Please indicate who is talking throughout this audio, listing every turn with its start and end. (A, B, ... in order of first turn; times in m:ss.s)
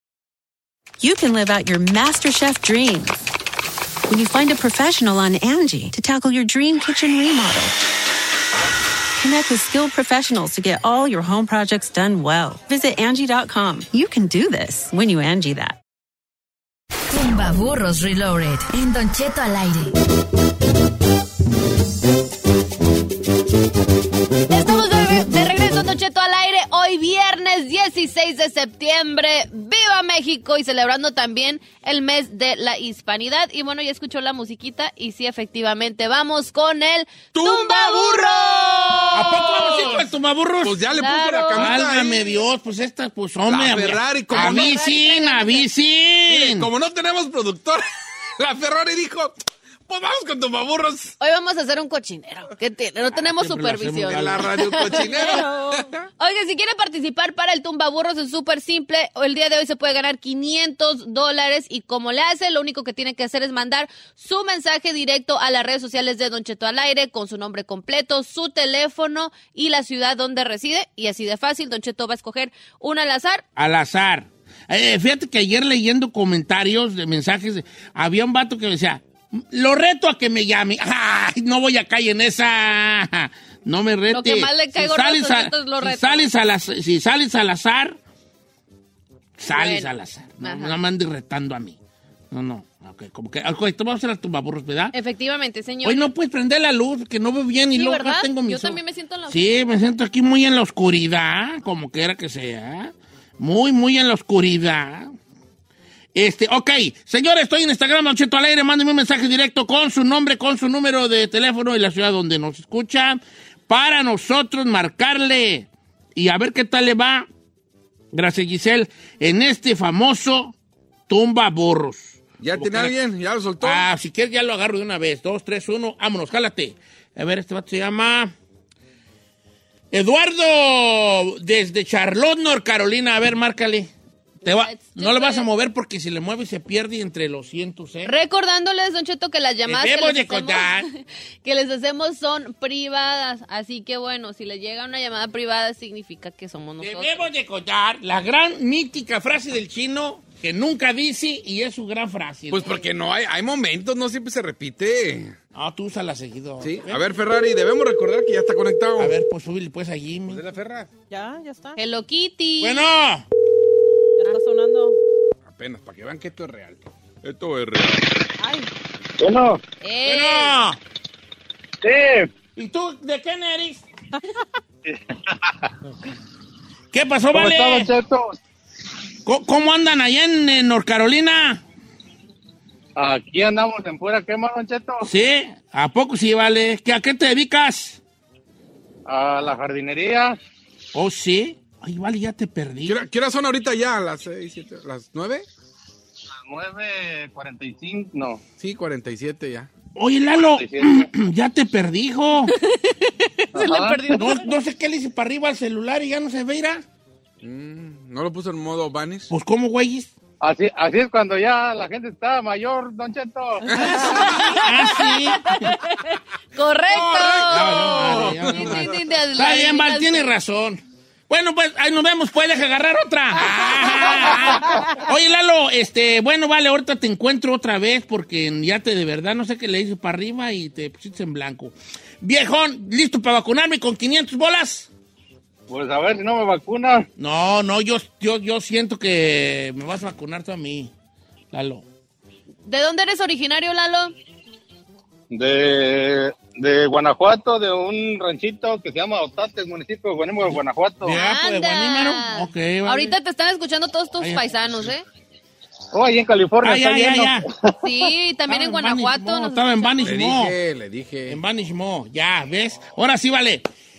0:01.0-0:03.3 A
0:04.1-0:07.7 A
0:09.2-0:15.8 A
0:17.1-0:20.0 B
0:24.5-0:39.1 C
0:37.3-0:40.0 D
0:39.1-0:40.8 E
0:40.6-0:42.4 D
0:40.9-0:41.7 C
0:41.5-0:46.7 E
0:43.5-0:44.8 D
0:44.3-0:45.6 C
0:46.3-0:47.8 D
0:48.4-0:49.3 D
0:49.9-0:51.1 D
0:51.2-0:55.4 C
0:53.4-0:54.5 E
0:54.1-0:55.9 D
0:55.1-0:55.9 F
0:56.2-1:13.4 C
1:13.6-1:28.0 E
1:24.1-1:26.3 C
1:29.4-1:31.8 E
1:29.5-1:30.8 C
1:32.3-1:34.9 E
1:34.9-1:36.1 C
1:35.8-1:45.1 E
1:37.7-1:39.6 C
1:46.1-1:57.3 E
1:58.1-2:00.5 E
2:01.1-2:02.9 E
2:02.4-2:03.9 D
2:03.6-2:08.3 E
2:09.9-2:13.9 E
2:14.4-2:15.5 C
2:14.4-2:18.1 E
2:18.0-2:27.2 C
2:19.6-2:20.8 E
2:26.8-2:32.7 E
2:32.5-2:35.4 D
2:35.5-2:37.1 E
2:36.6-2:39.1 D
2:39.0-2:40.4 E
2:40.3-2:40.9 D
2:41.1-2:41.8 F
2:41.8-2:42.8 C
2:42.6-2:43.2 E
2:44.2-2:45.0 F
2:45.4-2:48.0 D
2:48.4-2:48.7 F
2:49.2-2:49.6 G
2:49.8-2:50.6 C
2:50.0-2:50.8 E
2:51.8-2:52.3 G
2:52.6-2:53.8 E
2:54.8-2:55.7 G
2:56.9-2:57.9 E
2:57.3-2:58.4 G
2:59.2-3:01.6 E
3:03.0-3:05.1 G
3:05.0-3:08.0 E
3:09.0-3:10.4 G
3:10.9-3:13.0 E
3:12.8-3:15.4 D
3:16.4-3:18.4 G
3:18.6-3:19.7 D
3:20.0-3:22.5 E
3:20.4-3:21.1 G
3:22.8-3:24.5 C
3:23.5-3:24.0 G
3:24.1-3:26.8 E
3:27.4-3:29.3 D
3:29.3-3:30.1 E
3:30.4-3:33.9 G
3:33.7-3:34.4 D
3:33.9-3:35.8 E
3:34.1-3:40.3 C
3:36.9-3:38.8 D
3:37.5-3:54.9 E
3:55.7-3:57.1 G
3:57.2-4:00.9 E
4:01.5-4:01.8 E
4:02.6-4:04.1 C
4:05.3-4:11.1 G
4:11.0-4:13.1 E
4:11.1-4:15.0 C
4:14.2-4:14.5 E
4:15.9-4:17.7 G
4:16.6-4:17.4 E
4:17.8-4:20.1 C
4:18.5-4:20.6 E
4:20.0-4:21.4 D
4:21.3-4:23.6 E